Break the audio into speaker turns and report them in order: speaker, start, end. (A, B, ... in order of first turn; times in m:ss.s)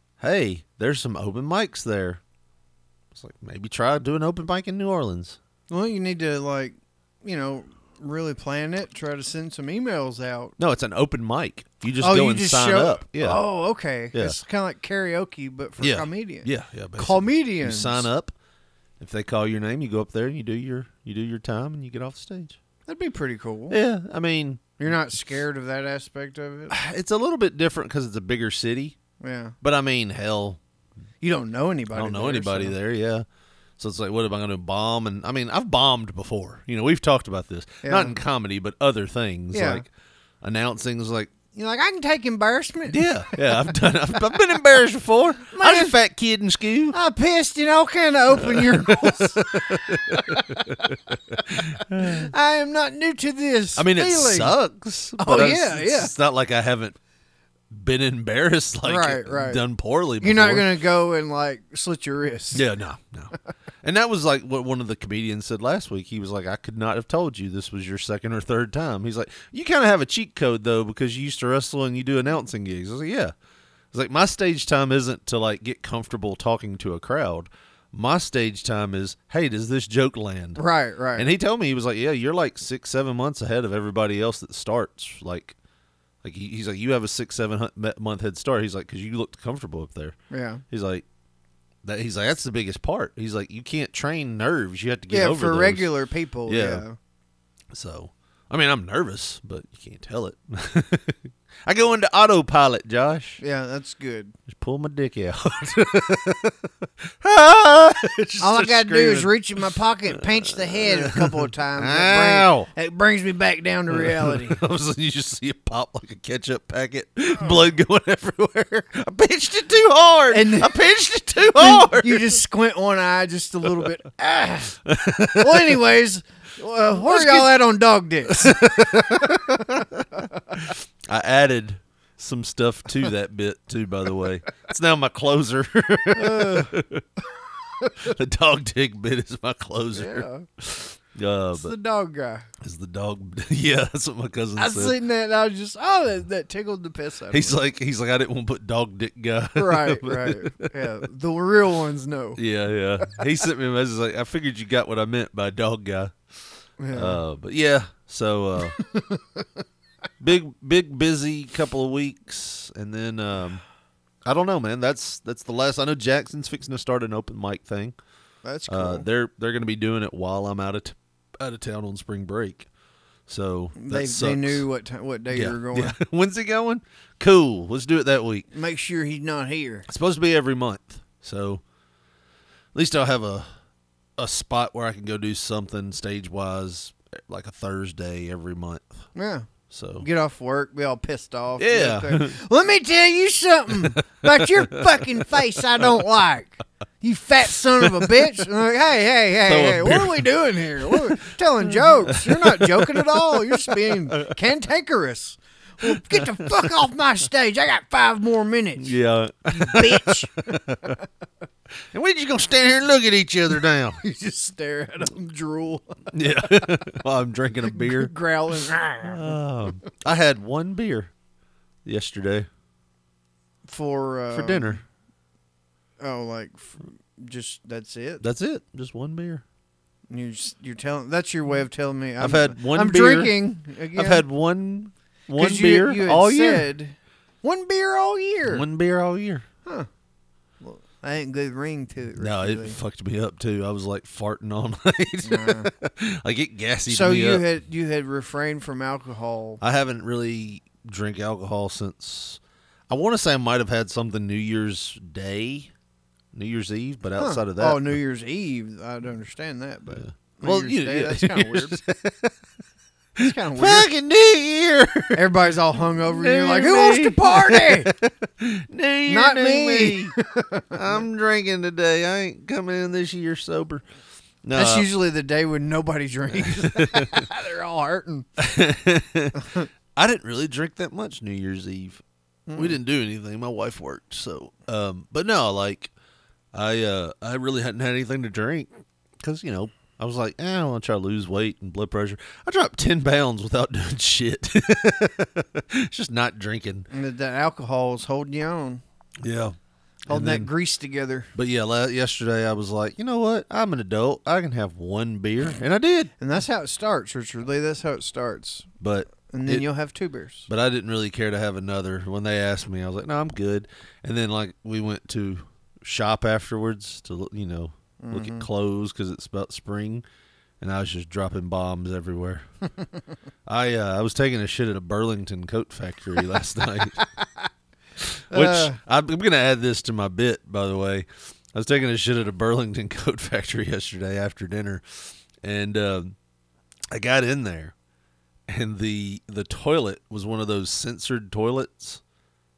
0:00.2-0:02.2 A
0:03.1-0:05.4 A
0:05.7-0:10.6 B
0:10.6-0:13.4 A
0:12.0-0:18.1 B
0:15.8-0:18.3 A
0:19.0-0:22.6 A
0:22.8-0:23.8 B
0:23.7-0:24.6 A
0:24.8-0:26.7 B
0:26.7-0:29.0 A
0:29.2-0:29.6 B
0:29.6-0:30.6 A
0:31.2-0:32.8 B
0:31.9-0:33.2 A
0:33.8-0:39.8 A
0:37.8-0:38.2 B
0:39.5-0:39.8 B
0:40.4-0:41.3 A
0:41.5-0:43.4 B
0:42.9-0:47.0 A
0:45.5-0:45.9 B
0:46.9-0:49.4 B
0:48.4-0:52.3 A
0:50.1-0:50.6 B
0:52.0-0:54.6 B
0:53.7-0:57.0 A
0:55.2-0:56.1 B
0:57.7-1:00.7 A
0:58.8-0:59.6 B
1:00.2-1:02.6 B
1:02.5-1:13.3 A
1:13.9-1:20.6 A
1:20.6-1:21.3 B
1:21.2-1:25.6 A
1:26.2-1:30.2 A
1:30.3-1:30.6 B
1:30.7-1:31.0 A
1:31.8-1:35.9 A
1:35.1-1:37.0 B
1:36.4-1:36.8 A
1:37.7-1:43.4 A
1:43.4-1:44.3 B
1:44.5-1:46.6 A
1:47.2-1:49.4 A
1:48.4-1:54.6 B
1:50.2-1:52.7 A
1:53.9-2:02.4 A
1:57.3-1:57.7 B
2:00.3-2:00.7 B
2:01.6-2:04.8 B
2:04.8-2:05.8 A
2:05.4-2:09.4 B
2:07.0-2:07.5 A
2:08.3-2:17.0 A
2:16.1-2:16.7 B
2:18.0-2:21.7 A
2:19.9-2:20.4 B
2:21.5-2:22.5 B
2:22.6-2:25.0 A
2:24.6-2:27.6 B
2:27.3-2:30.7 A
2:29.6-2:32.4 B
2:32.4-2:36.2 A
2:36.8-2:37.2 B
2:36.9-2:38.8 A
2:38.8-2:39.4 B
2:40.2-2:43.6 A
2:44.2-2:48.0 A
2:48.4-2:49.1 B
2:48.7-2:52.7 A
2:53.3-2:54.6 A
2:53.8-2:56.0 B
2:55.3-2:58.5 A
2:58.5-2:59.8 B
2:59.9-3:01.6 A
3:02.7-3:03.5 A
3:04.2-3:09.0 A
3:09.1-3:09.5 B
3:09.7-3:10.1 A
3:10.0-3:29.0 B
3:11.6-3:12.4 A
3:13.8-3:15.2 A
3:17.8-3:18.2 A
3:19.4-3:24.3 A
3:25.8-3:26.5 A
3:28.8-3:31.0 A
3:29.5-3:30.6 B
3:31.9-3:34.0 A
3:34.0-3:36.0 B
3:36.1-3:38.1 A
3:37.7-3:39.4 B
3:39.0-3:41.1 A
3:41.8-3:42.5 A
3:43.6-3:44.8 B
3:44.3-3:44.8 A
3:46.0-3:48.2 B
3:48.2-3:49.4 A
3:50.1-3:54.2 B
3:52.2-3:53.4 A
3:53.9-3:56.7 A
3:55.3-3:58.6 B
3:58.4-3:59.5 A
4:00.6-4:02.8 B
4:02.2-4:07.4 A
4:05.2-4:05.7 B
4:06.9-4:09.6 B
4:09.6-4:15.7 A
4:16.3-4:18.0 A
4:17.2-4:21.8 B
4:19.9-4:22.3 A
4:23.2-4:25.2 A
4:23.2-4:23.9 B
4:25.1-4:27.9 B
4:26.0-4:30.1 A
4:29.1-4:31.0 B
4:30.7-4:33.8 A
4:34.4-4:34.9 A
4:34.5-4:38.3 B
4:36.4-4:37.2 A
4:38.4-4:39.4 A
4:39.4-4:39.7 B
4:40.0-4:42.0 A
4:42.5-4:42.8 B
4:42.5-4:45.9 A
4:46.5-4:56.9 A
4:56.9-4:58.8 B
4:59.2-4:59.6 A
5:00.1-5:00.5 A
5:00.1-5:01.3 B
5:01.3-5:06.1 A
5:06.2-5:08.7 B
5:08.8-5:09.7 A
5:09.2-5:10.5 B
5:10.5-5:20.0 A
5:18.0-5:18.5 B
5:20.6-5:22.5 A
5:23.4-5:27.0 A
5:27.0-5:27.3 B
5:28.0-5:36.2 A
5:28.3-5:28.8 B
5:36.9-5:37.7 A
5:38.5-5:42.0 A